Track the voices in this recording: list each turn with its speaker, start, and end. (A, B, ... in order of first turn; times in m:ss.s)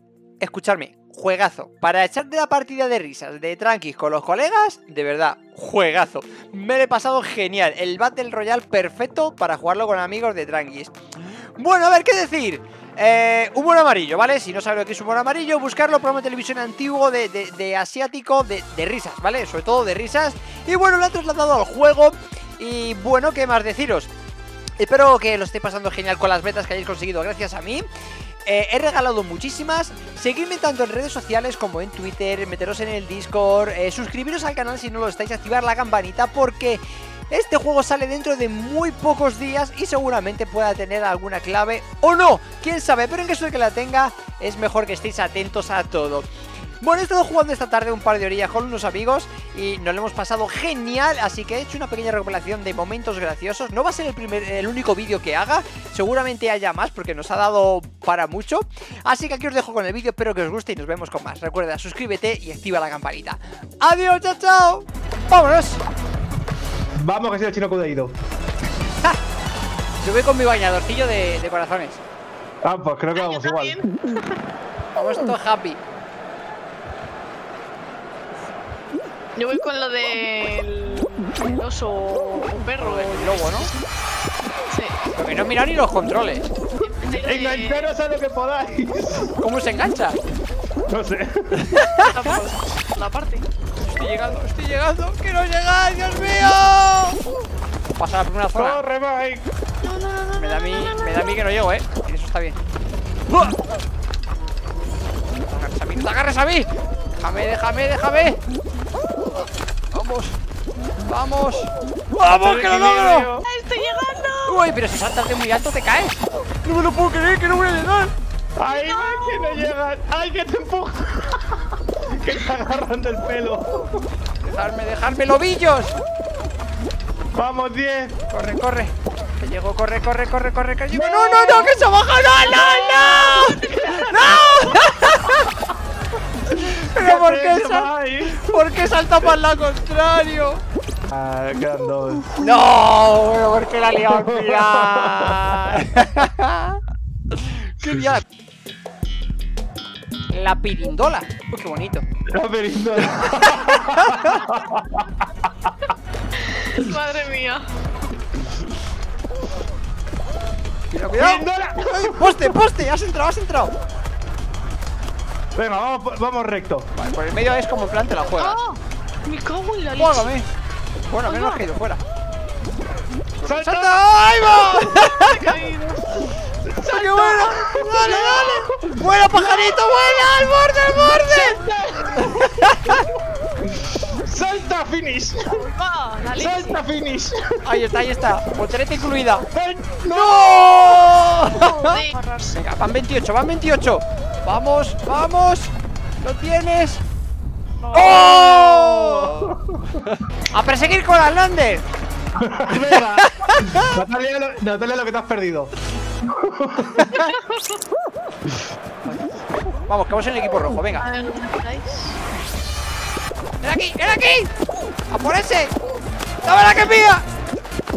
0:00.4-0:11.0 A
0:11.6-0:24.1 A
0:24.8-0:27.9 A
0:28.5-0:46.3 A
0:46.8-1:05.8 A
1:07.0-1:08.2 B
1:10.0-1:12.0 A
1:12.6-1:13.8 B
1:13.1-1:14.4 C
1:15.0-1:15.8 A
1:19.4-1:23.8 C
1:22.8-1:23.7 A
1:24.7-1:25.0 C
1:25.2-1:26.5 A
1:26.8-1:27.9 C
1:27.2-1:29.4 B
1:29.4-1:30.2 A
1:30.9-1:31.9 B
1:31.6-1:32.3 A
1:32.0-1:33.5 C
1:33.8-1:37.2 A
1:38.0-1:38.8 A
1:38.5-1:39.5 B
1:39.8-1:41.4 C
1:40.4-1:42.6 A
1:43.3-1:43.6 A
1:45.5-1:46.7 A
1:47.2-1:48.4 A
1:49.9-1:50.4 A
1:51.1-1:53.3 A
1:52.2-1:53.5 B
1:53.4-1:54.6 C
1:54.4-1:58.1 A
1:58.6-2:04.1 B
1:58.7-1:59.7 C
2:04.4-2:06.0 A
2:07.3-2:08.2 B
2:08.3-2:15.5 A
2:10.9-2:11.8 B
2:12.6-2:14.4 B
2:16.5-2:19.4 B
2:16.5-2:20.6 A
2:21.1-2:22.3 B
2:22.4-2:26.8 A
2:24.0-2:25.8 B
2:27.4-2:28.2 A
2:30.3-2:32.0 A
2:32.3-2:35.7 B
2:33.2-2:34.4 A
2:36.4-2:37.7 C
2:40.9-2:43.8 A
2:41.2-2:42.6 B
2:45.6-2:46.9 B
2:47.0-2:48.6 A
2:48.4-2:50.3 C
2:50.0-2:50.5 A
2:51.1-2:52.0 A
2:51.2-2:51.6 C
2:53.4-2:55.6 A
2:53.4-2:54.1 B
2:54.9-2:56.3 C
2:56.7-2:59.5 B
2:56.8-3:01.6 A
3:01.3-3:03.0 B
3:02.1-3:03.1 A
3:03.7-3:05.6 B
3:05.5-3:06.8 C
3:06.4-3:07.7 B
3:07.6-3:09.5 A
3:09.5-3:11.2 B
3:10.1-3:12.0 A
3:11.5-3:12.6 C
3:12.5-3:17.0 A
3:17.8-3:19.2 C
3:17.9-3:19.6 A
3:19.0-3:20.1 B
3:20.1-3:21.8 A
3:22.4-3:25.7 B
3:23.2-3:23.9 A
3:26.2-3:27.1 B
3:27.0-3:27.3 A
3:27.1-3:27.8 C
3:29.9-3:31.1 A
3:31.0-3:32.2 C
3:33.6-3:34.5 A
3:35.1-3:35.7 A
3:36.4-3:37.2 A